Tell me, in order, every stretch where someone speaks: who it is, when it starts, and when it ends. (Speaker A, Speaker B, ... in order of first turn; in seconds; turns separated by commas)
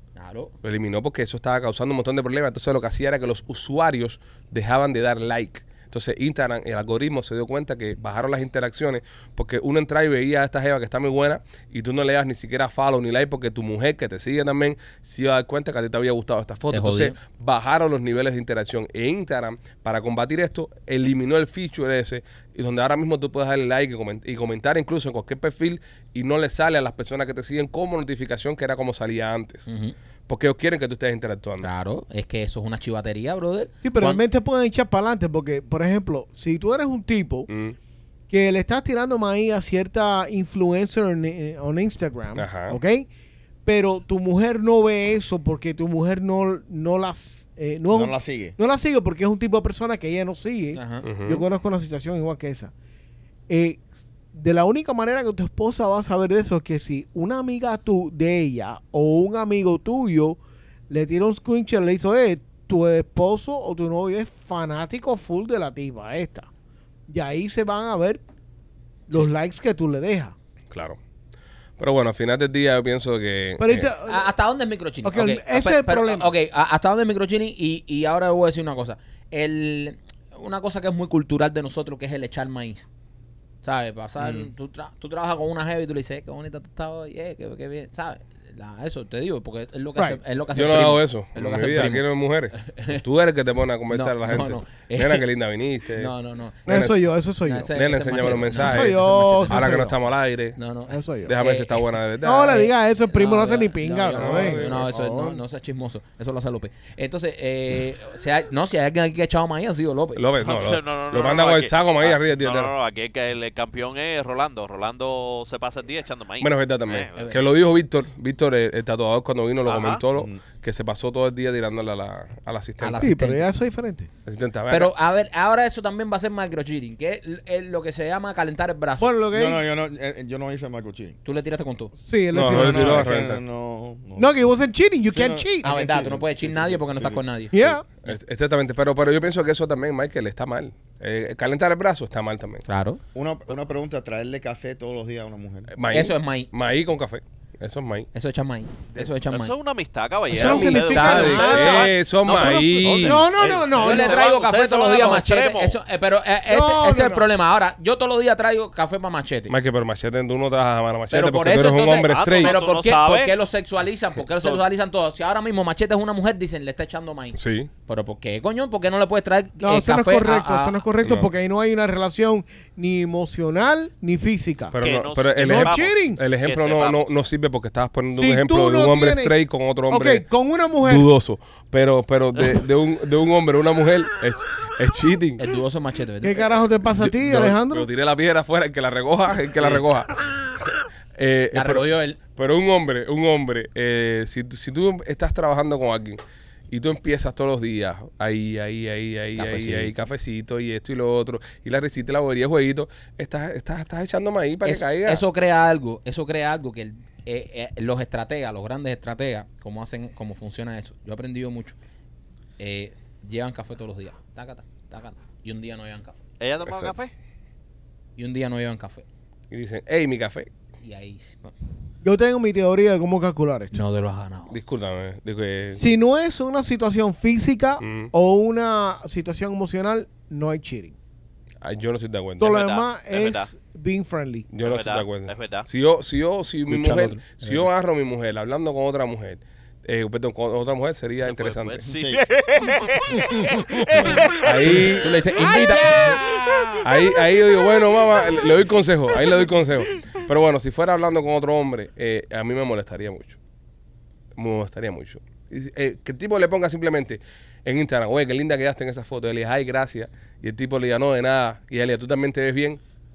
Speaker A: 0.1-0.5, Speaker B: 0.6-29.6, Speaker A: 16.7-17.2, Speaker A: 29.7-29.9, Speaker B: 30.3-31.7, Speaker A: 31.6-34.2, Speaker C: 33.8-37.5, Speaker B: 37.5-37.8, Speaker C: 38.3-43.1, Speaker B: 42.3-42.8, Speaker C: 43.6-52.7, Speaker D: 47.9-48.5, Speaker A: 50.7-51.0, Speaker B: 51.0-51.4, Speaker C: 53.5-53.8, Speaker C: 54.3-60.4, Speaker C: 60.9-66.5, Speaker C: 67.1-68.2, Speaker C: 69.1-70.3, Speaker B: 70.7-71.0, Speaker B: 71.8-73.9, Speaker C: 73.6-74.3, Speaker A: 74.0-82.8, Speaker C: 75.0-76.3, Speaker A: 83.6-93.0, Speaker D: 84.2-84.5, Speaker B: 90.5-96.1, Speaker A: 93.9-95.2, Speaker A: 96.0-96.9, Speaker B: 96.7-97.0, Speaker C: 96.7-97.7, Speaker A: 97.4-99.7, Speaker B: 97.7-100.6, Speaker C: 98.2-99.9, Speaker A: 100.5-101.8, Speaker C: 100.9-101.3, Speaker B: 101.2-102.7, Speaker C: 102.2-105.4, Speaker A: 103.1-110.2, Speaker B: 104.1-104.9, Speaker B: 110.2-112.7, Speaker E: 110.4-117.4, Speaker B: 116.4-123.1, Speaker E: 119.7-120.0, Speaker A: 122.8-123.5, Speaker C: 123.0-124.1, Speaker B: 124.2-124.9, Speaker A: 124.7-129.1, Speaker C: 129.0-129.6, Speaker D: 129.3-131.2, Speaker A: 131.2-131.9, Speaker C: 132.0-133.1, Speaker B: 132.3-133.4, Speaker D: 132.5-134.3, Speaker C: 134.2-135.7, Speaker D: 135.1-137.2, Speaker A: 135.6-138.2, Speaker C: 137.5-137.8, Speaker B: 138.0-142.6, Speaker A: 142.7-143.0, Speaker D: 143.1-145.7, Speaker B: 145.7-148.1, Speaker A: 145.9-146.5, Speaker A: 148.1-149.5, Speaker E: 149.0-155.8, Speaker C: 150.3-154.2, Speaker B: 150.3-153.3, Speaker A: 151.1-151.4, Speaker A: 153.7-159.5, Speaker C: 156.5-157.3, Speaker B: 159.5-162.6, Speaker A: 161.1-170.8, Speaker E: 162.1-163.3, Speaker B: 167.4-167.7, Speaker C: 169.6-174.8, Speaker B: 171.0-171.3, Speaker B: 174.7-180.2, Speaker E: 174.8-177.1, Speaker C: 175.4-176.2, Speaker C: 178.1-181.1, Speaker B: 180.8-185.4, Speaker A: 185.4-186.5, Speaker C: 186.2-187.9, Speaker B: 186.8-196.2, Speaker A: 189.6-189.8, Speaker A: 191.5-192.2, Speaker B: 196.7-205.2, Speaker A: 199.3-199.9, Speaker A: 204.6-211.8, Speaker A: 212.6-216.2, Speaker E: 216.4-217.1, Speaker B: 216.7-216.9, Speaker A: 218.2-219.0, Speaker B: 219.5-220.5, Speaker A: 220.8-221.5, Speaker C: 222.0-223.8, Speaker A: 223.7-224.6, Speaker B: 224.5-225.9, Speaker C: 225.8-230.9, Speaker B: 227.8-228.1, Speaker B: 231.6-232.6, Speaker C: 232.4-234.5, Speaker E: 232.4-233.5, Speaker B: 234.5-241.8, Speaker E: 234.6-235.7, Speaker A: 236.7-237.7, Speaker E: 241.2-245.0, Speaker D: 241.9-242.2, Speaker C: 243.3-244.2, Speaker B: 244.3-245.1, Speaker A: 244.7-246.2, Speaker C: 245.4-246.9, Speaker B: 246.8-253.4, Speaker B: 254.4-262.8